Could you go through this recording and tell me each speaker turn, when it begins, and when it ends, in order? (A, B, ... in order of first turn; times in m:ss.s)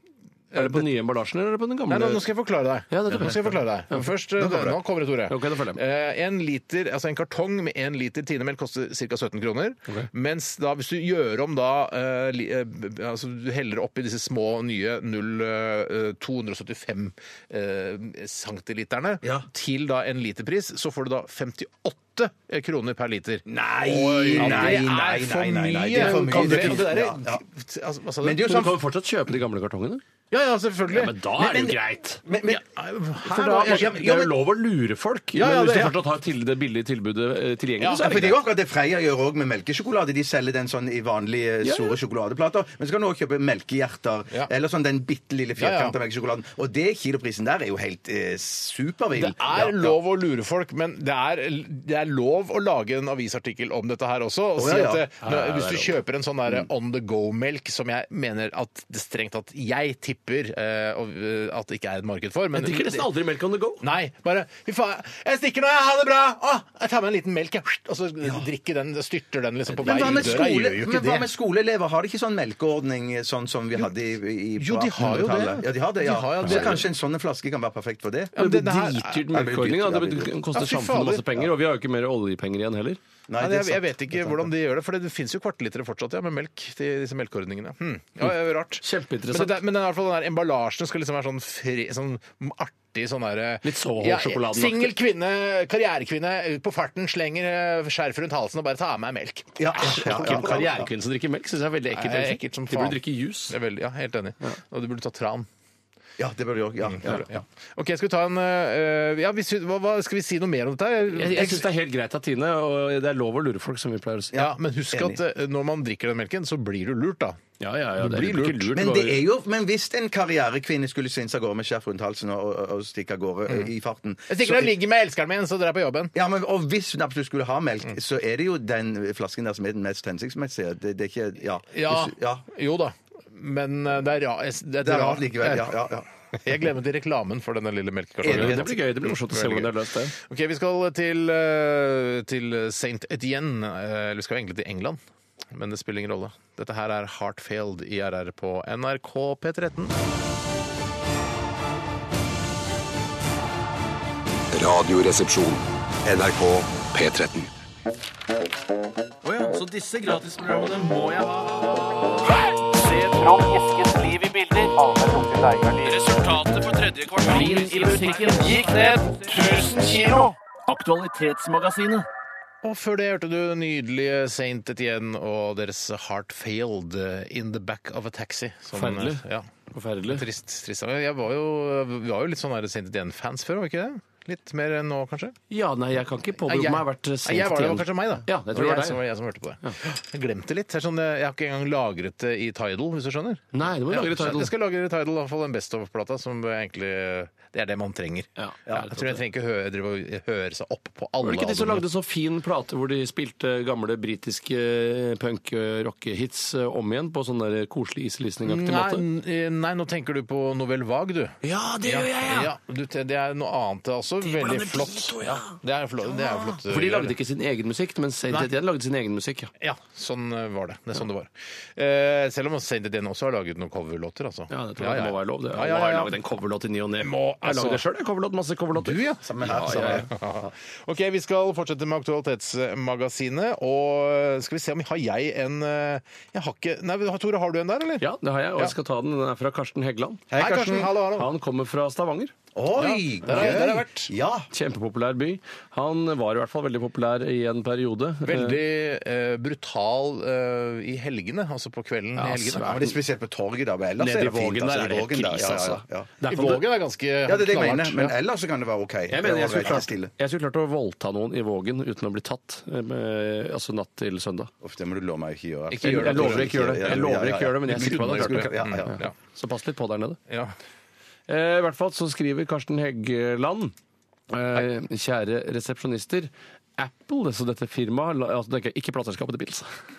0:00.5-0:00.9 A
0:00.5-0:02.2 B
0:01.9-0:28.5 A
0:02.9-0:04.1 B
0:04.4-0:04.8 C
0:05.3-0:05.8 B
0:23.5-0:27.4 C
0:24.4-0:24.8 B
0:26.0-0:26.8 B
0:28.2-0:28.8 C
0:28.4-0:30.0 B
0:30.3-0:31.2 A
0:30.9-0:32.2 B
0:31.4-0:32.6 C
0:32.5-0:34.0 A
0:33.3-0:38.4 B
0:33.3-0:34.3 C
0:35.3-0:36.0 A
0:37.8-0:38.3 A
0:38.0-0:50.0 C
0:41.6-0:42.0 B
0:45.6-0:46.0 A
0:49.2-1:03.2 A
0:54.6-0:55.0 C
0:55.2-0:55.9 B
1:02.5-1:03.8 B
1:03.8-1:11.3 A
1:09.7-1:10.3 B
1:09.8-1:18.4 C
1:14.6-1:16.9 A
1:18.4-1:19.2 A
1:18.4-1:23.0 B
1:19.3-1:20.3 C
1:20.5-1:21.4 A
1:23.3-1:24.5 C
1:23.4-1:40.8 A
1:28.8-1:29.6 B
1:33.6-1:34.9 B
1:39.6-1:40.9 C
1:39.8-1:43.6 B
1:41.9-1:45.5 A
1:46.2-1:47.4 C
1:46.9-1:51.6 A
1:51.1-1:54.3 B
1:54.3-1:55.2 C
1:54.4-1:57.4 A
1:57.6-1:59.2 B
1:58.0-1:58.8 A
1:58.7-2:04.7 C
2:04.3-2:06.1 A
2:06.1-2:12.4 C
2:11.7-2:15.8 A
2:14.8-2:16.1 C
2:16.4-2:25.0 A
2:18.2-2:18.7 C
2:18.3-2:20.1 B
2:25.5-2:29.9 A
2:34.5-2:37.5 D
2:39.2-2:41.4 B
2:42.6-2:50.3 E
2:45.9-2:49.0 B
2:50.7-2:52.0 B
2:52.6-2:59.5 A
2:58.7-3:00.2 B
3:00.1-3:05.4 A
3:05.5-3:09.0 B
3:06.4-3:21.8 A
3:13.5-3:14.5 B
3:18.4-3:19.2 B
3:21.2-3:29.0 B
3:28.4-3:37.1 A
3:31.4-3:32.5 B
3:34.2-3:35.6 B
3:36.1-3:39.5 B
3:39.6-3:46.2 A
3:44.5-3:50.1 B
3:47.0-3:47.8 A
3:48.7-3:58.7 A
3:49.2-3:50.1 C
3:58.0-4:00.3 B
4:00.3-4:00.9 C
4:00.4-4:01.3 A
4:01.1-4:02.3 B
4:02.6-4:04.5 C
4:02.8-4:04.1 A
4:03.3-4:03.6 B
4:04.5-4:08.6 B
4:08.2-4:12.8 A
4:12.2-4:12.9 B
4:12.6-4:16.1 C
4:14.0-4:16.6 B
4:16.3-4:18.2 A
4:17.3-4:20.1 C
4:19.1-4:24.5 B
4:24.6-4:29.0 C
4:25.7-4:27.1 A
4:25.8-4:30.2 B
4:27.7-4:29.1 A
4:30.3-4:30.5 A
4:31.3-4:33.8 B
4:34.3-4:39.8 B